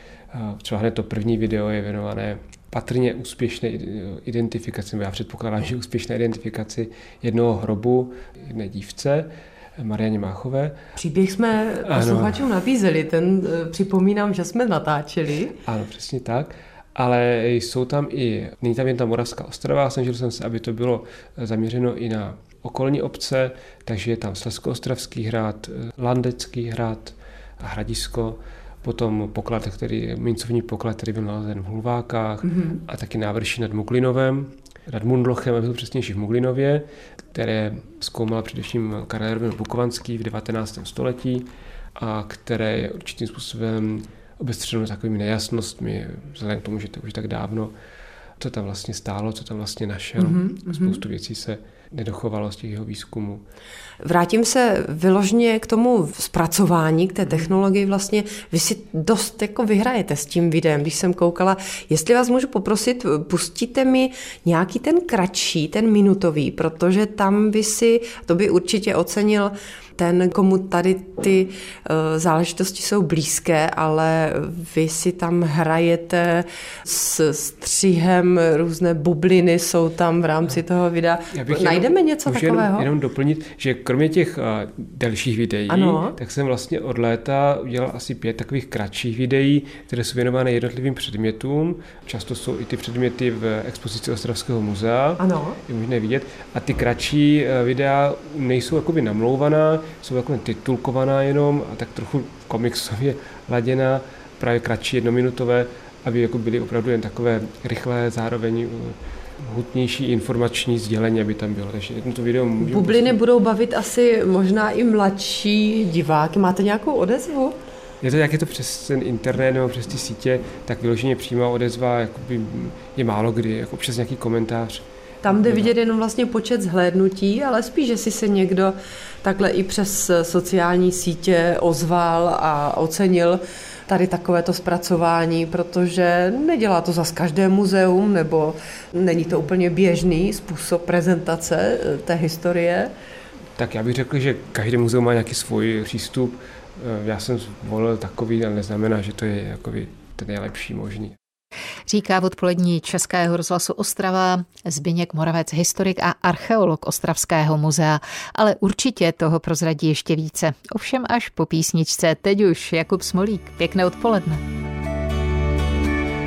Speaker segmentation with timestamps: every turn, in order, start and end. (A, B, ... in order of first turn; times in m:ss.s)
0:00.3-0:10.8 A
0:11.0-0:15.6 B
0:11.8-0:12.4 A
0:15.6-0:47.7 A
0:32.5-0:32.8 B
0:48.4-0:53.4 A
0:50.2-0:51.0 B
0:54.0-1:22.9 B
1:21.3-1:53.2 A
1:25.7-1:26.2 B
1:35.2-1:35.6 B
1:52.6-1:57.6 B
1:58.0-2:05.7 A
2:05.2-2:22.9 B
2:23.6-2:31.2 A
2:31.9-2:44.4 C